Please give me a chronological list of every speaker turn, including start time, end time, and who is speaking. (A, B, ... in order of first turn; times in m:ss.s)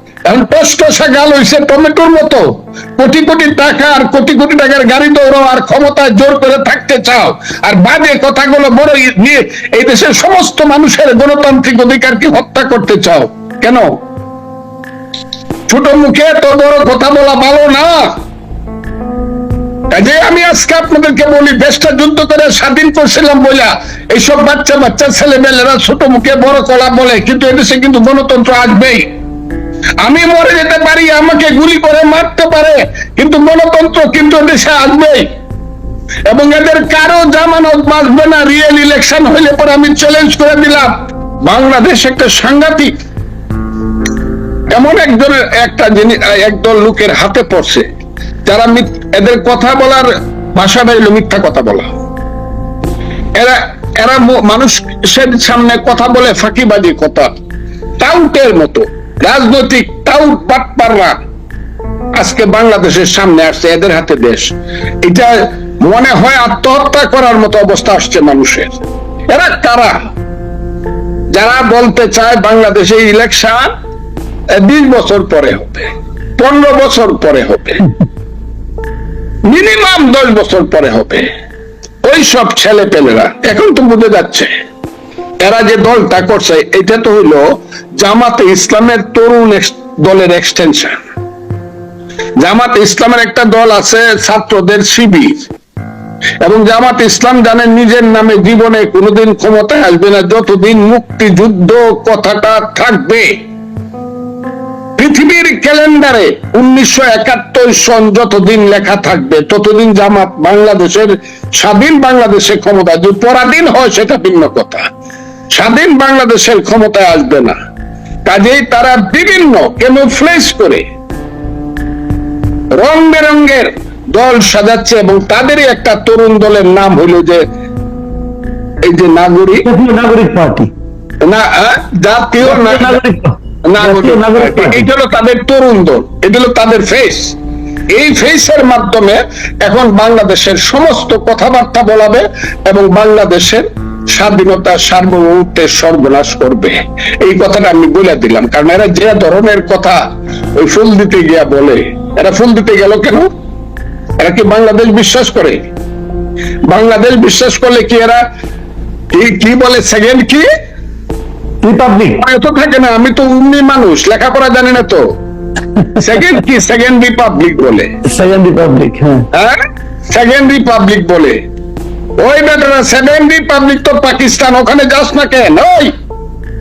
0:00.3-0:13.9 A
0:15.7-0:18.1 A
0:19.9-0:29.0 A
0:30.0-0:35.3 A
0:36.3-0:40.9 A
0:41.4-0:42.9 A
0:44.7-0:47.8 A
0:48.5-0:51.9 A
0:53.4-0:57.3 A
0:58.0-1:01.2 A
1:02.2-1:10.0 A
1:11.3-1:13.7 A
1:14.5-1:17.9 A
1:19.5-1:21.3 A
1:22.0-1:24.5 A
1:25.4-1:27.4 A
1:28.0-1:31.0 A
1:32.4-1:35.5 A
1:36.4-1:43.3 A
1:45.0-1:54.8 A
1:55.5-1:57.6 A
1:58.2-2:00.8 A
2:02.8-2:07.4 A
2:08.8-2:09.7 A
2:09.6-2:10.7 B
2:11.2-2:13.0 A
2:12.4-2:13.3 B
2:13.7-2:17.4 A
2:13.8-2:14.9 B
2:17.9-2:30.0 A
2:30.6-2:33.3 A
2:34.2-2:35.6 A
2:36.7-2:38.2 A
2:39.1-2:40.4 A
2:41.6-2:42.2 B
2:42.2-2:45.0 A
2:46.0-2:47.9 A
2:48.1-2:49.2 B
2:50.1-2:51.4 A
2:52.2-2:55.9 A